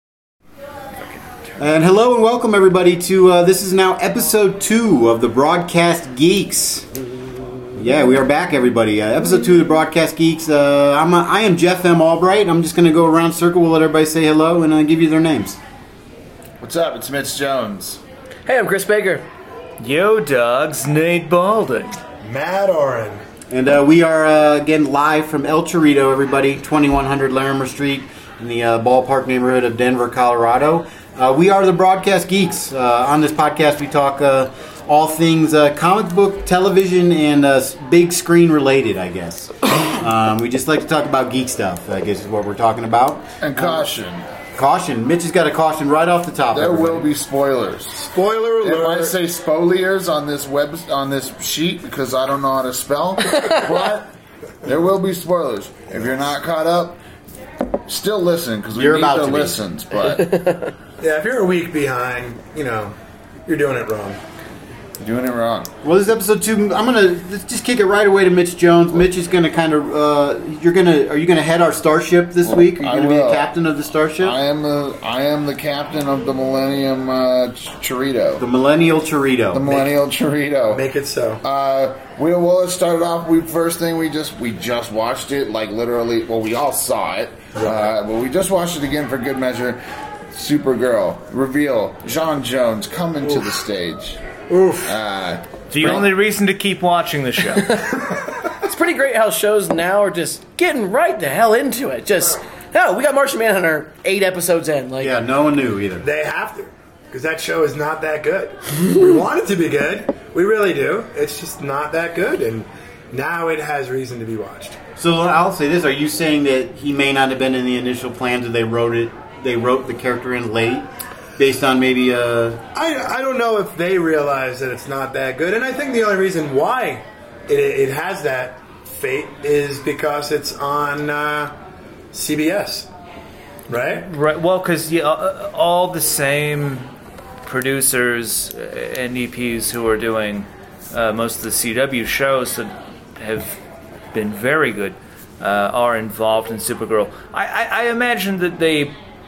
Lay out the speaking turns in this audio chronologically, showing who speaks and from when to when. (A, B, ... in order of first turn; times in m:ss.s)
0:01.6-0:06.9 A
0:07.7-0:15.6 A
0:16.6-0:18.0 B
0:18.5-0:19.2 C
0:19.8-0:22.0 D
0:22.2-0:23.2 E
0:23.5-0:43.8 A
0:43.4-0:44.2 B
0:44.6-0:47.1 A
0:46.5-0:54.1 B
0:48.1-0:49.1 E
0:54.6-0:57.0 B
0:57.9-1:00.4 B
0:58.8-0:59.6 A
1:00.2-1:00.7 C
1:01.0-1:02.9 E
1:03.5-1:04.2 E
1:05.0-1:05.7 B
1:05.8-1:14.3 A
1:12.4-1:13.5 B
1:14.2-1:18.4 B
1:18.4-1:19.9 A
1:19.5-1:20.8 B
1:20.7-1:21.4 E
1:21.4-1:29.8 B
1:27.6-1:27.9 E
1:30.3-1:34.2 B
1:34.5-1:34.9 E
1:34.8-1:36.1 B
1:35.7-1:37.8 D
1:38.6-1:45.2 C
1:45.0-1:46.0 A
1:46.0-1:54.8 E
1:55.0-2:02.6 A
2:02.7-2:11.5 E
2:12.1-2:12.9 E
2:13.7-2:14.1 E
2:13.9-2:16.9 D
2:17.4-2:23.6 D
2:24.1-2:28.9 D